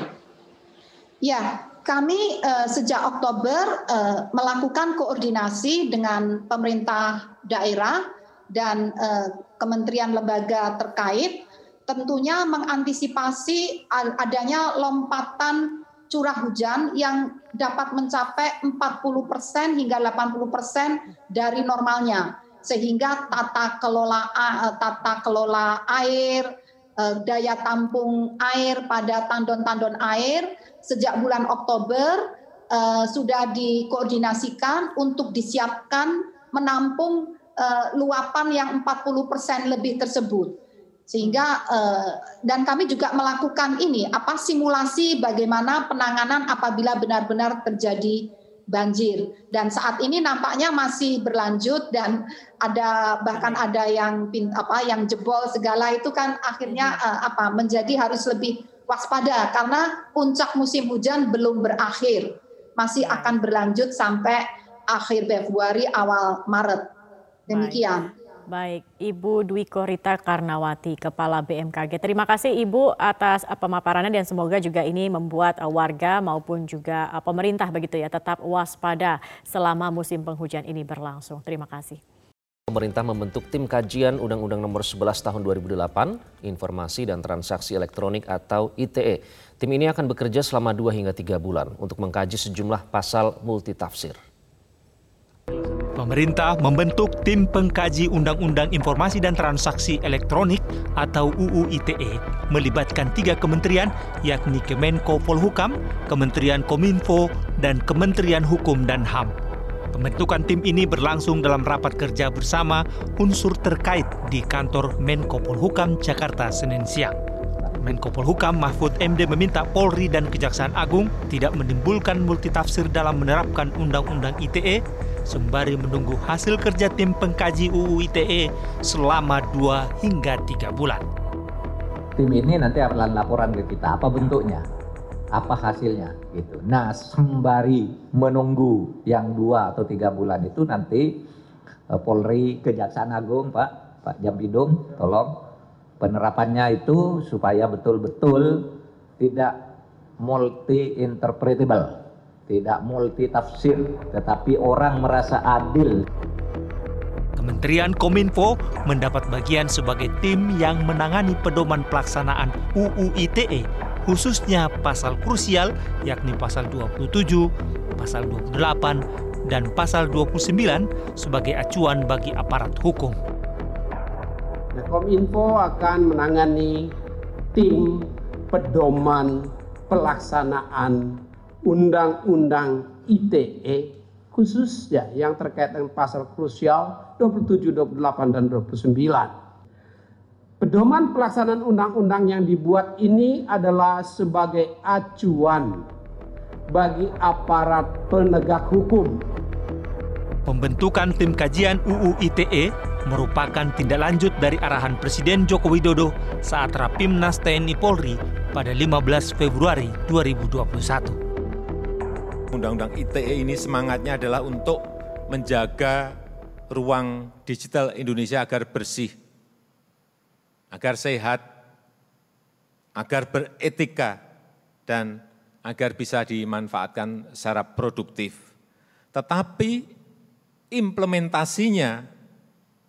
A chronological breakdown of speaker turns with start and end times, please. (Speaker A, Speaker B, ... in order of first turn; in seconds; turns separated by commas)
Speaker A: 1.2-66.8, Speaker B: 53.3-53.6, Speaker B: 56.7-57.0, Speaker B: 63.0-63.4, Speaker A: 67.5-68.1, Speaker B: 67.5-67.8, Speaker B: 68.5-82.0, Speaker C: 82.7-94.2, Speaker D: 96.0-109.3, Speaker D: 109.9-117.2, Speaker E: 117.6-117.9, Speaker D: 117.8-131.1, Speaker E: 132.2-134.7, Speaker E: 135.3-141.2, Speaker E: 141.9-145.4, Speaker E: 146.0-149.6, Speaker E: 150.2-156.1, Speaker D: 157.4-173.2, Speaker F: 174.7-176.9, Speaker F: 177.5-189.3, Speaker F: 190.6-195.9, Speaker F: 196.7-199.3, Speaker D: 200.5-211.2, Speaker G: 212.5-216.2, Speaker G: 216.7-219.2, Speaker G: 220.7-221.4, Speaker G: 223.0-224.2, Speaker G: 224.9-228.4, Speaker G: 229.1-229.9, Speaker G: 230.7-232.0